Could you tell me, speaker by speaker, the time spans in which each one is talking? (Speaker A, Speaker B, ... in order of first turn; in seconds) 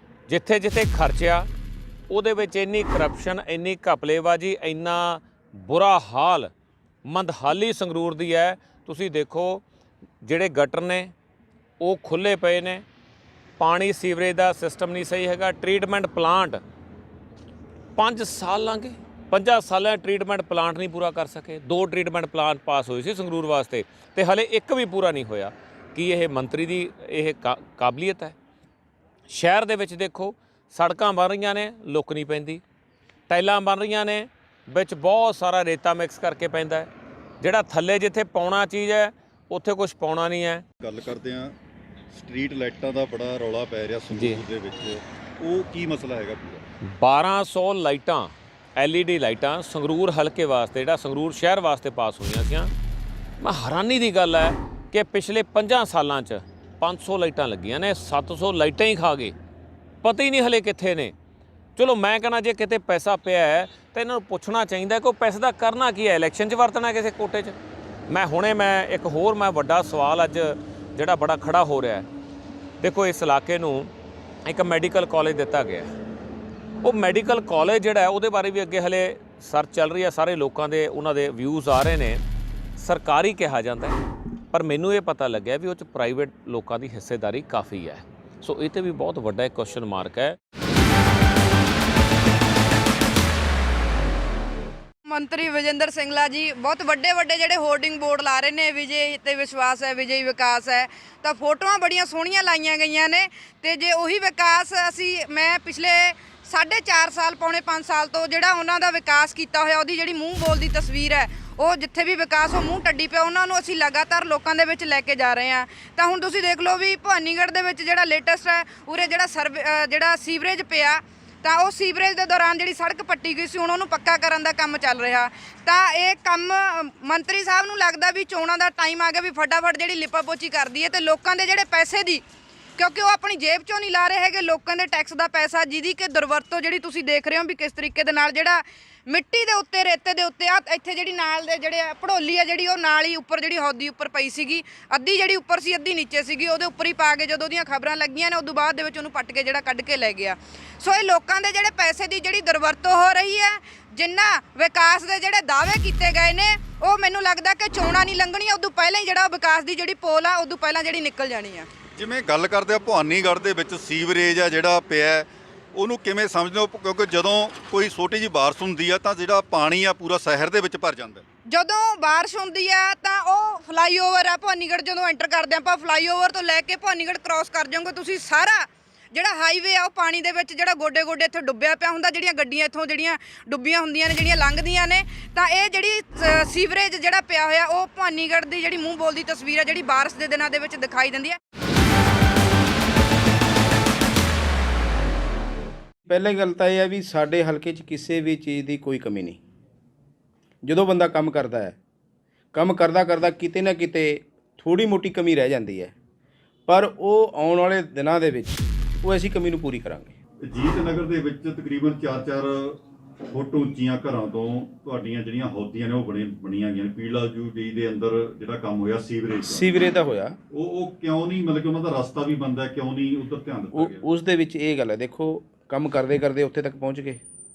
Speaker A: 0.3-1.5, 2.1-6.5, 7.0-9.6, 10.2-11.1, 11.8-12.8, 13.6-16.6, 17.9-28.3, 29.3-32.6, 33.3-36.9, 37.4-40.6, 44.1-44.4, 46.9-52.7, 53.4-59.3, 60.0-61.1, 61.8-67.5, 68.1-72.1, 72.8-73.9, 74.5-75.9, 76.8-82.2, 82.8-84.0, 84.5-90.4
Speaker B: 40.8-41.5, 42.1-46.6, 161.9-171.2, 210.4-219.7, 220.5-224.0
Speaker C: 95.1-132.2, 132.8-161.7, 171.5-191.4
Speaker D: 196.1-199.4, 200.6-201.8, 202.5-205.9, 206.7-210.2, 219.4-220.4, 223.7-227.2